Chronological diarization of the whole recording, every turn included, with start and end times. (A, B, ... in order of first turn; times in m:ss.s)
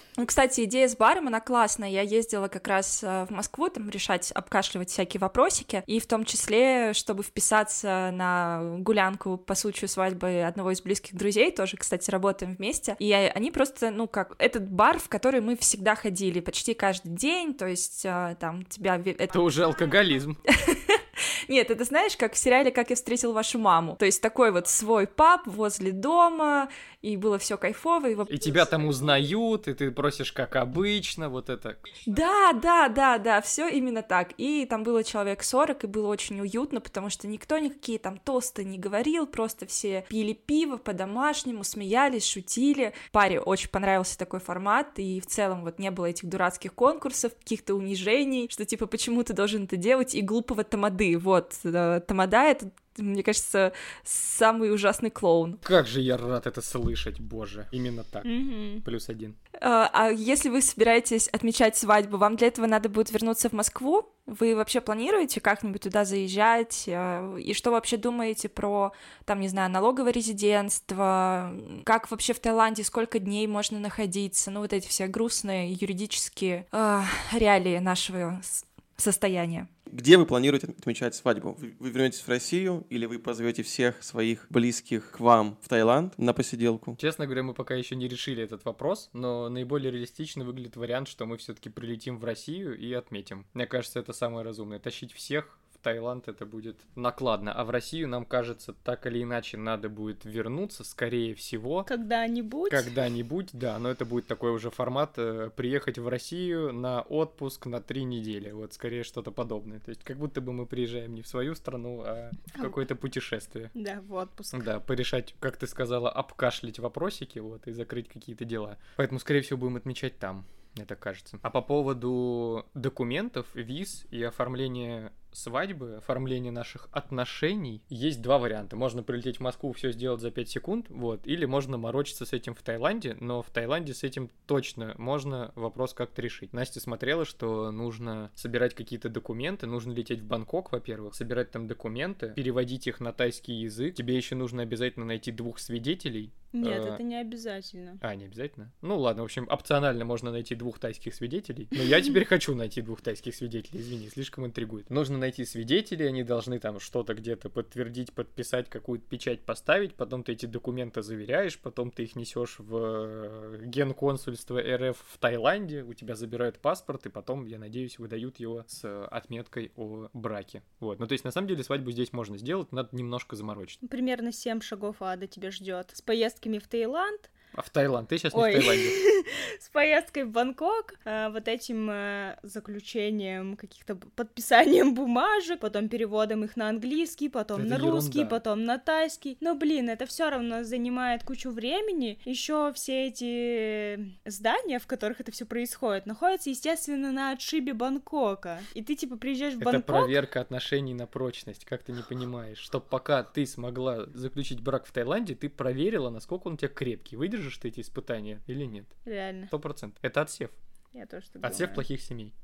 0:00.2-0:19.4 A
0:19.3-0:20.4 B
0:20.6-0:28.6 A
0:28.3-0:31.8 B
0:32.0-0:55.6 A
0:55.6-0:58.3 B
0:58.2-0:58.8 C
0:58.8-0:59.4 B
0:59.6-1:19.7 A
1:19.9-1:27.0 D
1:27.0-1:41.9 B
1:41.8-1:42.9 C
1:42.7-1:53.7 B
1:53.7-1:54.6 C
1:54.5-2:27.0 B
2:26.5-2:28.0 C
2:28.0-2:53.8 B
2:53.8-2:57.3 C
2:57.5-2:59.0 B
2:58.3-3:20.1 C
3:07.5-3:08.4 B
3:19.6-3:28.9 B
3:29.0-3:29.5 C
3:29.5-3:30.6 B
3:30.9-3:31.8 C
3:31.4-3:32.3 B